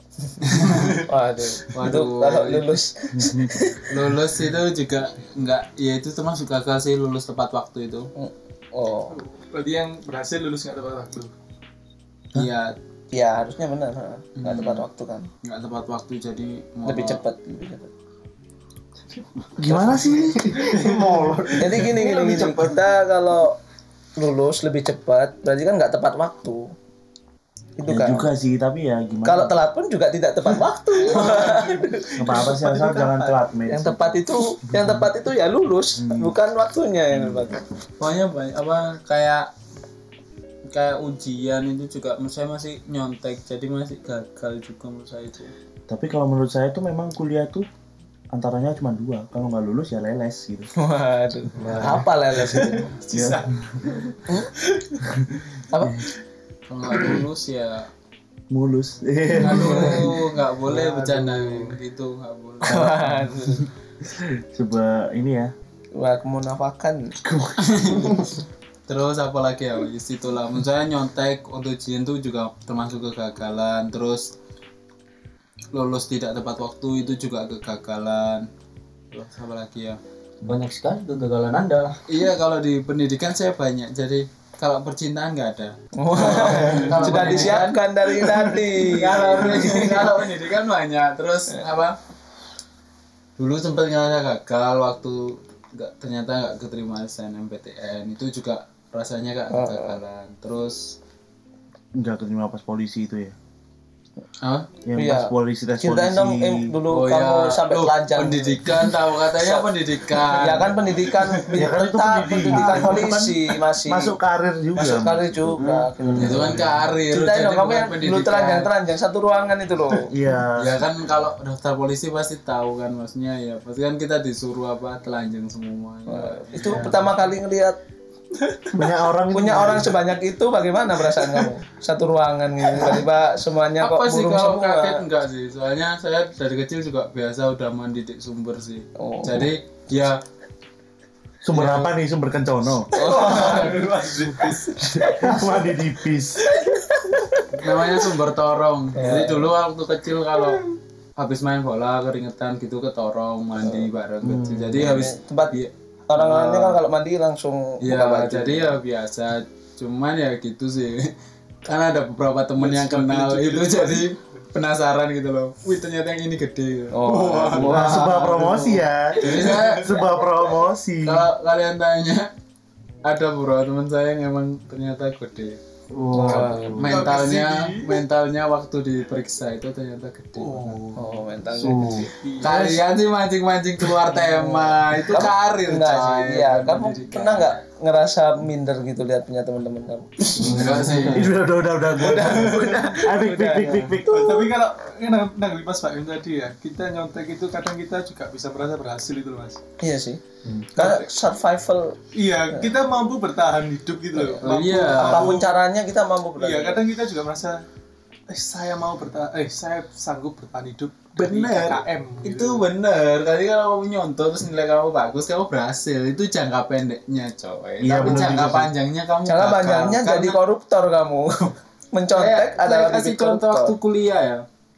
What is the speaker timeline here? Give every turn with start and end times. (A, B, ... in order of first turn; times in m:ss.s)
0:00.5-0:00.9 A
0:00.7-0:01.0 B
0:01.0-0:04.0 C
0:01.7-0:02.8 A
0:03.1-0:03.6 D
0:03.9-0:08.1 A
0:08.2-0:09.2 C
0:09.1-0:11.3 B
0:12.3-0:12.8 A
0:13.1-0:15.3 C
0:14.4-0:14.8 A
0:15.4-0:17.2 A
0:16.8-0:17.9 C
0:19.6-0:20.5 D
0:19.7-0:22.7 E
0:20.6-0:21.8 B
0:21.6-0:23.6 C
0:24.2-0:26.7 C
0:27.8-0:28.3 C
0:27.9-0:29.5 D
0:29.2-0:32.5 C
0:31.0-0:33.3 B
0:32.2-0:34.2 D
0:33.7-0:37.6 C
0:36.0-0:36.3 D
0:38.0-0:39.5 A
0:40.7-0:45.5 A
0:45.9-0:47.7 D
0:48.3-0:50.7 D
0:50.8-0:52.9 C
0:51.6-0:52.1 E
0:52.5-0:54.8 B
0:53.1-0:53.4 D
0:55.7-0:56.1 C
0:55.8-0:56.1 D
0:56.7-0:57.9 A
0:58.5-1:00.2 D
0:59.4-1:03.0 A
0:59.5-0:59.9 C
1:00.6-1:01.8 E
1:02.6-1:03.3 D
1:02.6-1:03.7 C
1:04.0-1:05.5 D
1:05.9-1:07.2 C
1:07.2-1:08.2 D
1:07.6-1:08.2 A
1:08.9-1:14.3 A
1:15.7-1:18.5 A
1:19.1-1:20.0 A
1:20.4-1:22.0 E
1:22.1-1:27.8 A
1:26.0-1:30.2 C
1:26.3-1:27.2 B
1:27.0-1:27.5 E
1:28.2-1:30.0 B
1:28.8-1:32.0 A
1:33.4-1:40.9 A
1:39.5-1:40.0 C
1:42.0-1:43.3 D
1:44.4-1:44.7 A
1:44.8-1:46.7 D
1:44.9-1:54.1 C
1:46.9-1:50.9 A
1:51.5-1:56.6 D
1:54.8-2:00.1 C
1:55.6-1:56.7 E
1:56.2-1:58.7 A
2:00.0-2:00.8 D
2:00.6-2:07.1 A
2:06.1-2:07.8 C
2:06.6-2:06.9 E
2:08.4-2:08.9 B
2:08.7-2:10.0 D
2:09.3-2:15.0 C
2:11.1-2:11.5 B
2:13.8-2:20.2 A
2:19.0-2:19.5 C
2:21.4-2:22.9 D
2:21.5-2:21.9 A
2:22.9-2:23.8 C
2:22.9-2:25.8 B
2:24.9-2:26.4 D
2:26.4-2:27.4 B
2:26.9-2:27.3 C
2:27.6-2:30.6 A
2:29.0-2:29.5 C
2:31.2-2:36.8 A
2:34.2-2:34.8 D
2:34.7-2:38.8 C
2:37.8-2:41.1 A
2:41.6-2:48.0 A
2:42.6-2:44.1 B
2:46.9-2:48.2 C
2:47.4-2:48.5 B
2:47.6-2:51.3 D
2:48.1-2:48.6 E
2:49.2-2:50.0 A
2:49.2-2:49.8 B
2:51.0-2:52.3 A
2:53.0-2:55.6 A
2:55.9-2:56.5 D
2:56.1-2:56.9 E
2:56.1-2:56.8 C
2:56.2-3:00.8 A
2:56.8-2:58.0 B
3:00.4-3:01.1 B
3:00.9-3:02.1 C
3:01.6-3:02.1 E
3:01.7-3:02.0 D
3:02.0-3:02.8 B
3:02.4-3:07.6 A
3:04.1-3:10.7 C
3:10.4-3:11.3 E
3:10.4-3:11.3 A
3:11.1-3:14.5 D
3:12.0-3:14.0 C
3:14.0-3:19.6 B
3:19.8-3:20.2 C
3:20.4-3:20.7 E
3:20.8-3:21.1 B
3:20.8-3:22.0 C
3:22.1-3:25.5 B
3:24.1-3:26.8 C
3:24.4-3:25.4 A
3:26.4-3:27.6 B
3:28.3-3:32.6 B
3:31.2-3:40.4 A
3:37.8-3:38.7 D
3:39.3-3:43.7 C
3:42.1-3:44.4 A